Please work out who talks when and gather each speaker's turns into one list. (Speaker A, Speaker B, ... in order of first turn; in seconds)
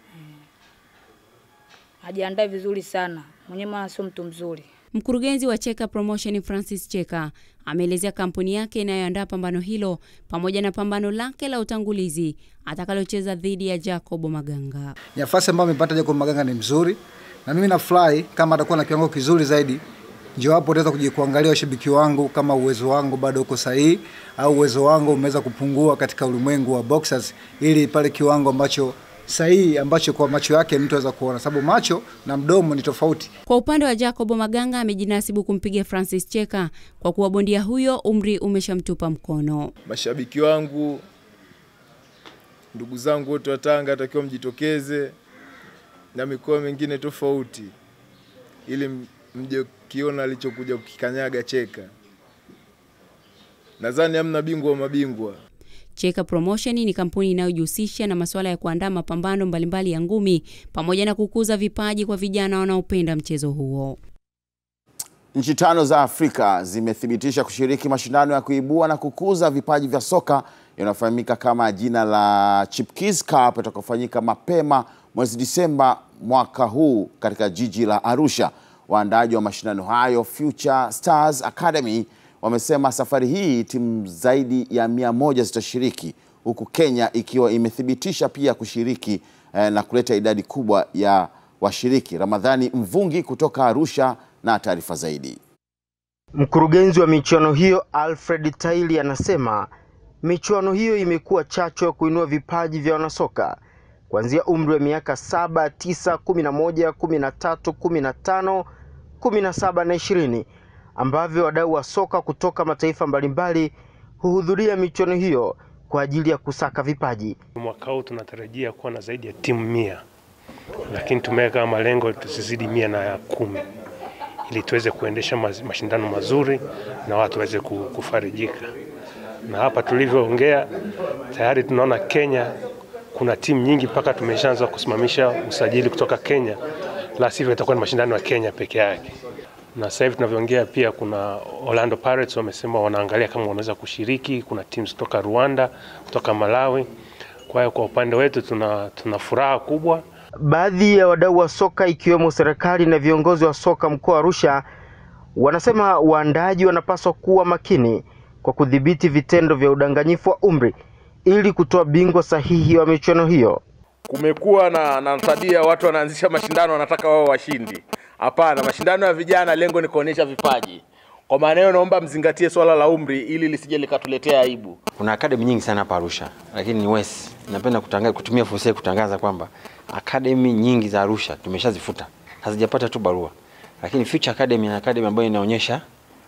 Speaker A: 2.1-4.6
Speaker B: 4.9-14.9, 33.5-39.7, 56.0-64.0
Speaker C: 15.2-19.8, 20.4-33.3
Speaker D: 39.9-41.0, 42.7-45.1, 46.1-47.7, 48.7-51.9, 53.8-55.4
Speaker E: 65.3-95.4
Speaker F: 96.3-99.7, 100.2-103.6, 104.1-108.7, 109.2-110.5, 111.0-117.4, 150.4-154.6, 155.3-160.7, 161.3-163.6
Speaker G: 117.5-120.0, 120.9-123.6, 124.5-128.7, 129.5-130.7, 131.3-132.5, 133.1-136.6, 137.2-139.1, 139.7-146.9, 147.5-150.0
Speaker H: 164.1-170.8, 171.3-174.7
Speaker I: 175.0-185.8